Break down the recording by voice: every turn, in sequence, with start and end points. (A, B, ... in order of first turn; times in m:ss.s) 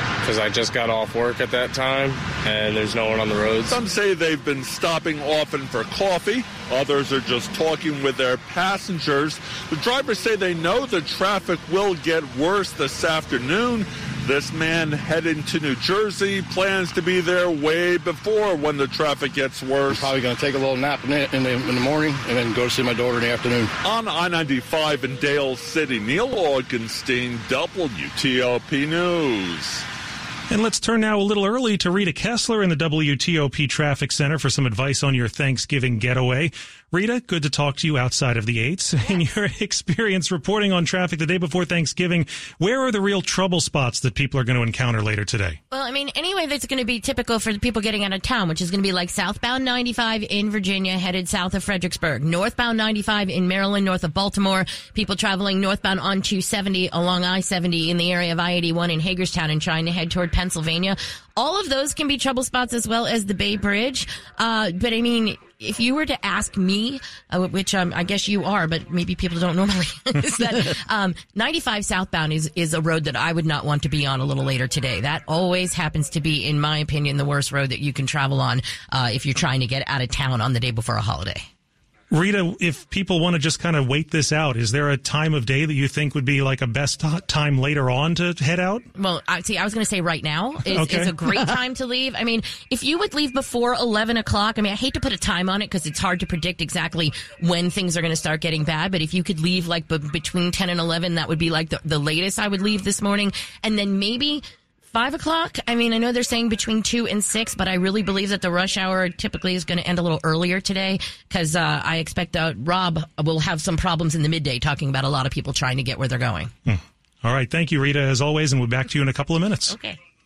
0:00.3-0:03.7 A
0:03.6-0:20.1 B
0:19.9-0:23.7 C
0:23.8-0:29.8 B
0:30.5-0:45.6 D
0:45.7-1:21.4 E
1:22.1-1:28.8 D
1:29.0-1:56.5 E
1:30.7-1:31.1 D
1:56.6-1:59.7 D
1:59.7-2:00.0 E